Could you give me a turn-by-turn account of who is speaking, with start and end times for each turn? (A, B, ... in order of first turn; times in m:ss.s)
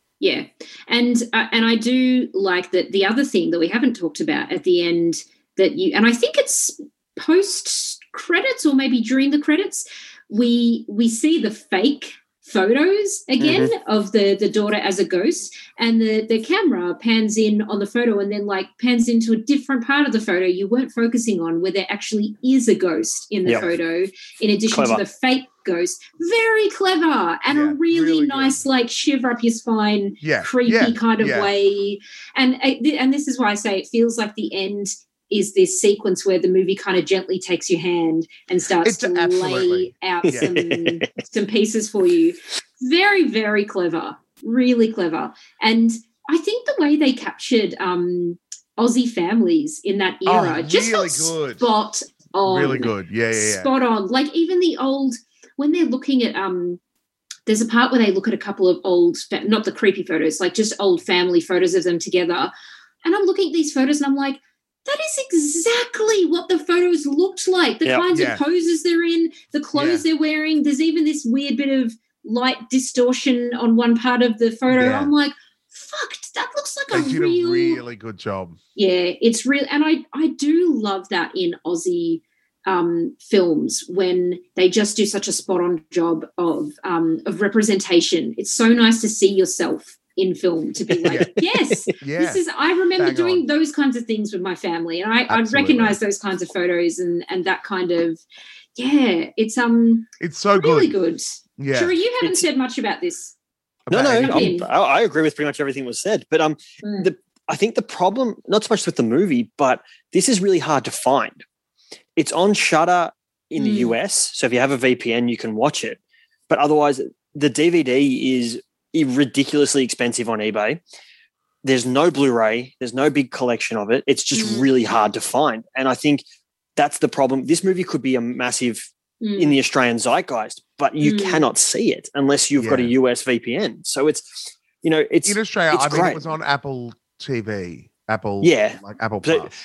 0:00.2-0:56.8 A
0:13.4-0:13.7 B
0:24.7-0:25.0 B
0:27.5-0:28.6 C
0:30.2-0:31.5 C
0:38.8-0:40.6 C
0:40.2-0:41.0 B
0:50.2-0:51.6 C
0:52.4-0:53.7 C
0:57.4-1:02.5 A
1:03.0-1:17.8 A
1:08.1-1:08.4 C
1:09.7-1:10.0 C
1:14.7-1:15.1 C
1:16.9-1:18.6 C
1:18.8-1:38.2 A
1:31.9-1:32.4 C
1:33.0-1:33.4 C
1:35.3-1:36.0 C
1:38.8-1:43.3 A
1:40.2-1:40.9 C
1:41.6-1:42.0 C
1:43.9-1:44.6 C
1:43.9-1:51.4 B
1:44.1-1:44.7 A
1:52.2-2:00.8 B
1:53.6-1:53.9 A
2:01.6-2:06.2 B
2:04.3-2:04.7 A
2:06.8-2:16.2 B
2:09.2-2:09.6 A
2:11.0-2:11.5 A
2:12.6-2:12.9 C
2:15.2-2:19.5 C
2:18.4-2:19.5 B